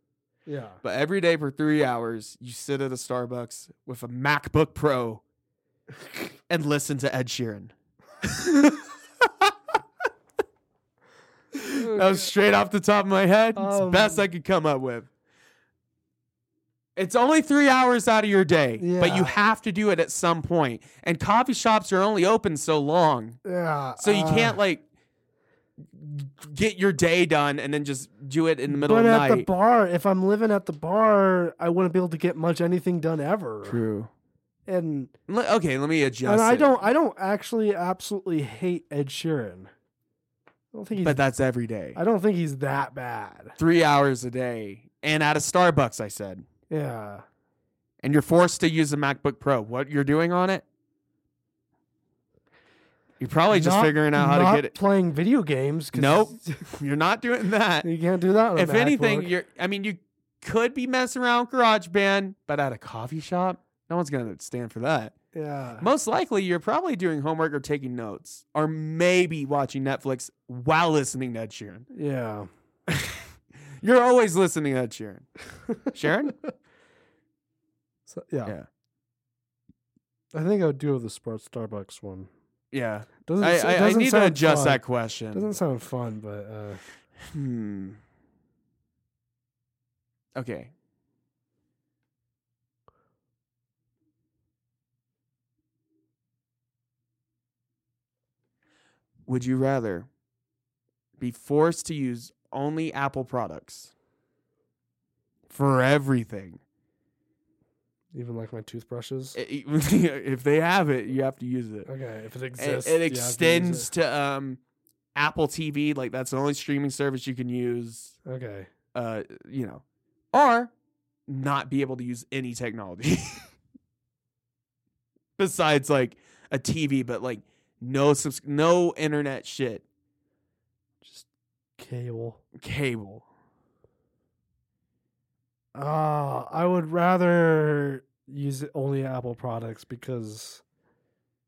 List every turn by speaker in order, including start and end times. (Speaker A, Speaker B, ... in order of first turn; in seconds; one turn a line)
Speaker A: 0.5-0.8
Speaker B: 0.8-5.2
Speaker B: 6.5-9.5
Speaker B: 11.5-15.1
Speaker A: 11.8-12.3
Speaker A: 13.6-14.2
Speaker B: 16.9-23.4
Speaker A: 18.8-19.4
Speaker A: 23.4-24.6
Speaker B: 24.0-24.8
Speaker B: 25.9-29.5
Speaker A: 28.7-33.8
Speaker B: 33.6-34.1
Speaker A: 34.7-35.1
Speaker B: 35.3-36.8
Speaker A: 36.2-39.7
Speaker A: 40.7-41.2
Speaker B: 41.0-42.0
Speaker A: 41.9-43.6
Speaker B: 43.6-46.5
Speaker A: 46.7-47.2
Speaker B: 48.0-50.6
Speaker B: 53.2-54.7
Speaker A: 53.5-56.6
Speaker B: 55.9-57.9
Speaker A: 57.8-59.3
Speaker B: 58.5-65.1
Speaker A: 65.3-65.9
Speaker B: 65.8-71.9
Speaker A: 71.9-72.5
Speaker B: 73.8-75.3
Speaker B: 75.9-76.4
Speaker A: 78.1-78.5
Speaker A: 80.3-82.3
Speaker B: 82.7-85.5
Speaker A: 83.2-86.8
Speaker B: 87.3-88.0
Speaker B: 90.3-90.7
Speaker B: 99.3-100.1
Speaker B: 101.2-103.9
Speaker B: 105.5-106.6
Speaker A: 108.1-109.3
Speaker B: 109.3-111.9
Speaker A: 111.8-113.9
Speaker B: 112.6-114.6
Speaker B: 115.1-118.2
Speaker A: 118.2-118.7
Speaker B: 118.9-120.7
Speaker B: 121.3-123.5
Speaker B: 125.4-129.8
Speaker A: 131.0-131.3
Speaker A: 131.8-132.4
Speaker B: 132.6-133.3
Speaker A: 135.7-140.6